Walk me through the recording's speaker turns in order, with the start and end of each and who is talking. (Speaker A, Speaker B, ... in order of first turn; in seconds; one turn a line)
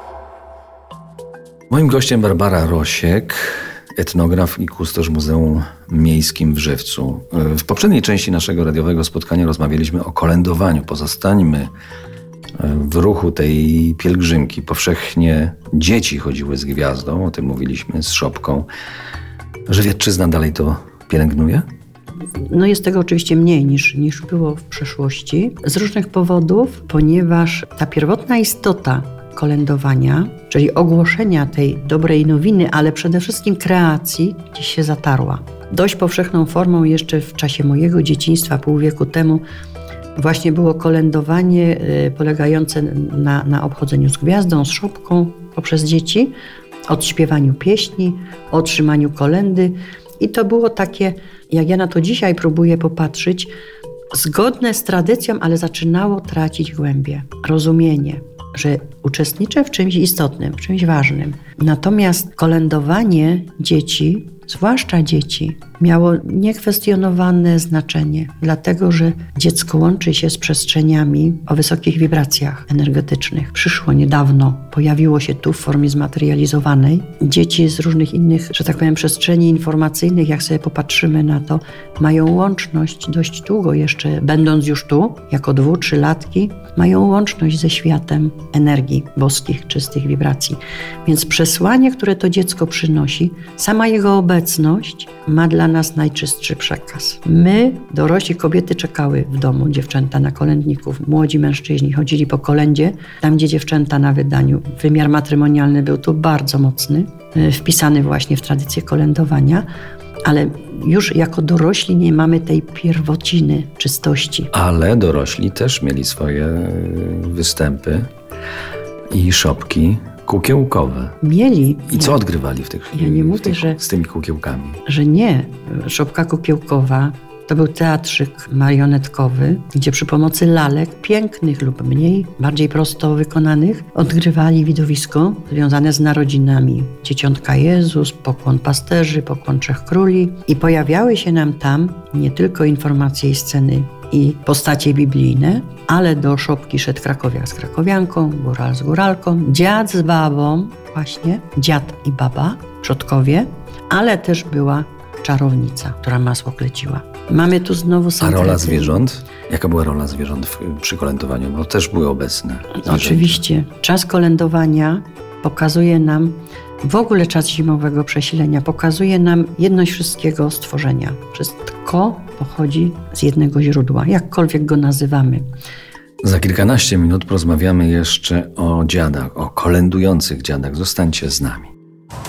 Speaker A: 1.7-11.7
Speaker A: 12.6-18.7
Speaker A: 19.7-21.7
Speaker B: 22.4-39.4
Speaker B: 40.2-46.3
Speaker B: 46.9-53.5
Speaker B: 54.1-109.7
Speaker B: 110.2-114.5
Speaker A: 114.5-118.1
Speaker A: 119.1-121.2
Speaker B: 121.2-122.2
Speaker A: 121.9-124.8
Speaker B: 122.9-123.8
Speaker B: 124.9-159.0
Speaker A: 158.2-163.4
Speaker B: 162.8-175.5
Speaker A: 176.2-181.7